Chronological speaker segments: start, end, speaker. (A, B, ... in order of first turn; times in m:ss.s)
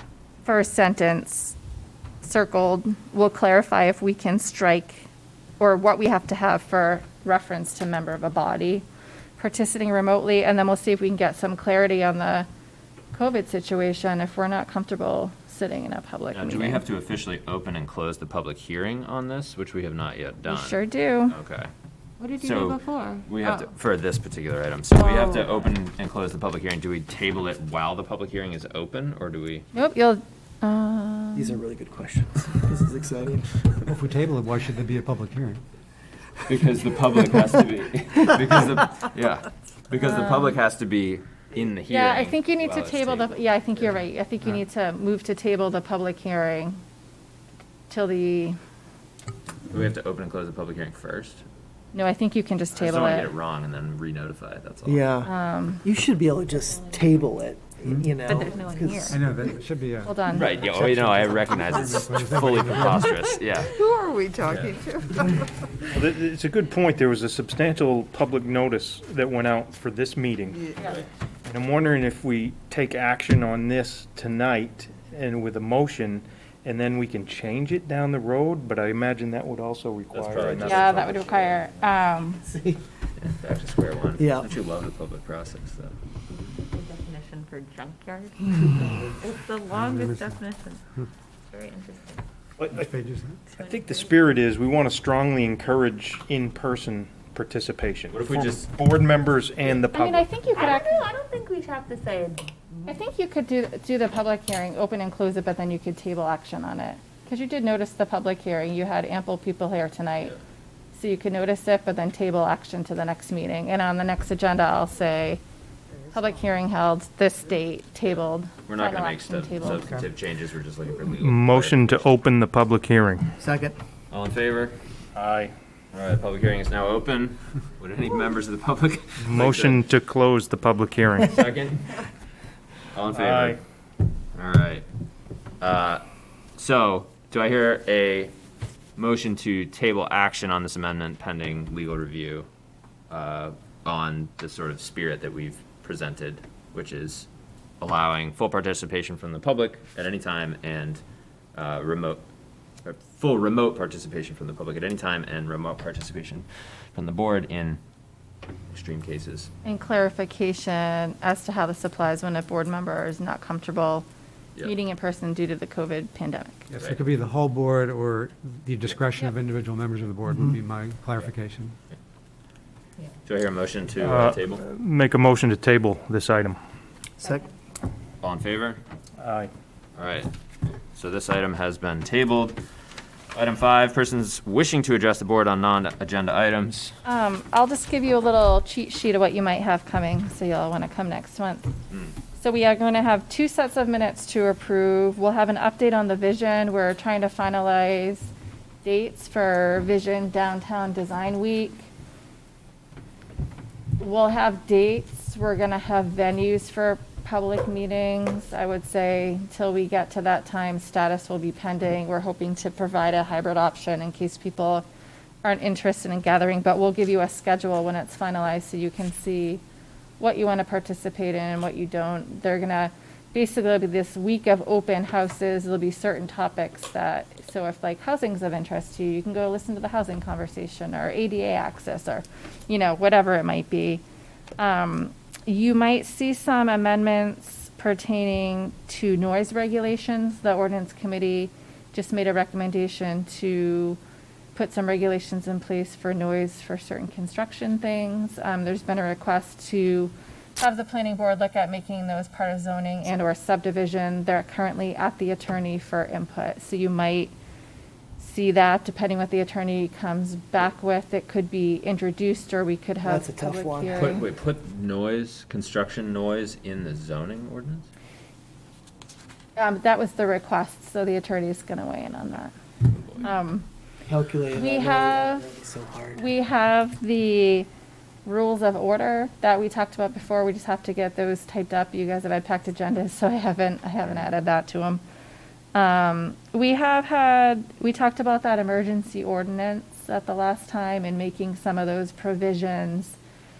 0:00.4-0:01.6 A
0:02.2-0:05.1 A
0:05.6-0:08.9 A
0:09.4-0:12.5 A
0:13.1-0:16.8 A
0:16.3-0:21.7 B
0:20.5-0:21.4 A
0:22.2-0:23.7 C
0:22.4-0:29.7 B
0:24.9-0:25.5 A
0:29.7-0:31.6 A
0:31.4-0:33.9 D
0:33.9-0:35.6 E
0:36.5-0:43.3 B
0:40.0-0:40.5 A
0:41.9-0:46.8 A
0:47.9-0:48.6 A
0:49.7-0:51.4 B
0:51.9-0:53.3 A
0:52.8-0:55.1 B
0:54.9-0:55.3 D
0:55.2-0:55.9 A
0:55.8-0:59.2 D
0:56.7-0:57.2 C
0:58.2-0:59.2 C
0:59.1-1:00.2 E
1:00.0-1:00.5 A
1:00.3-1:03.7 B
1:00.8-1:03.2 E
1:03.9-1:05.2 C
1:04.0-1:04.6 A
1:04.4-1:04.7 B
1:05.9-1:10.8 F
1:10.8-1:11.1 B
1:11.5-1:21.1 F
1:20.1-1:21.6 B
1:20.7-1:22.4 A
1:23.2-1:25.9 B
1:24.2-1:24.5 D
1:26.3-1:30.8 C
1:29.7-1:30.4 E
1:31.5-1:32.2 C
1:32.7-1:33.4 E
1:33.6-1:40.3 F
1:33.6-1:34.3 C
1:38.1-1:38.7 B
1:39.9-1:41.1 A
1:40.5-1:42.8 C
1:42.9-1:50.4 A
1:50.9-1:55.4 A
1:56.1-1:59.9 A
1:58.7-2:02.0 B
2:01.1-2:03.4 F
2:03.4-2:03.7 D
2:04.1-2:04.8 B
2:05.2-2:05.5 F
2:05.9-2:09.8 B
2:09.2-2:11.3 F
2:11.2-2:12.0 B
2:12.9-2:13.6 B
2:13.1-2:13.6 F
2:14.4-2:14.8 B
2:15.6-2:16.0 B
2:16.6-2:18.3 B
2:19.0-2:22.5 B
2:23.1-2:27.3 B
2:27.8-2:31.0 B
2:31.6-2:32.2 B
2:32.8-2:37.8 B
2:38.7-2:39.5 B
2:39.6-2:44.1 A
2:44.6-2:46.6 A
2:46.7-2:51.8 E
2:53.2-2:54.6 B
2:54.0-2:56.6 F
2:58.2-2:58.8 B
2:59.2-2:59.5 F
3:00.0-3:00.3 B
3:00.9-3:02.6 B
3:03.3-3:06.9 B
3:07.0-3:11.7 A
3:12.4-3:18.3 A
3:18.8-3:21.9 A
3:24.0-3:34.8 A
3:35.4-3:39.6 A
3:40.2-3:54.0 A
3:54.6-4:04.0 A
4:04.5-4:17.3 A
4:18.2-4:24.2 A
4:23.0-4:24.1 D
4:23.9-4:27.9 B
4:29.6-4:32.5 A
4:32.9-4:33.2 B
4:33.2-4:33.7 A
4:34.1-4:36.3 D
4:34.6-4:35.5 A
4:36.2-4:37.7 A
4:38.2-4:45.0 A
4:45.7-4:53.2 A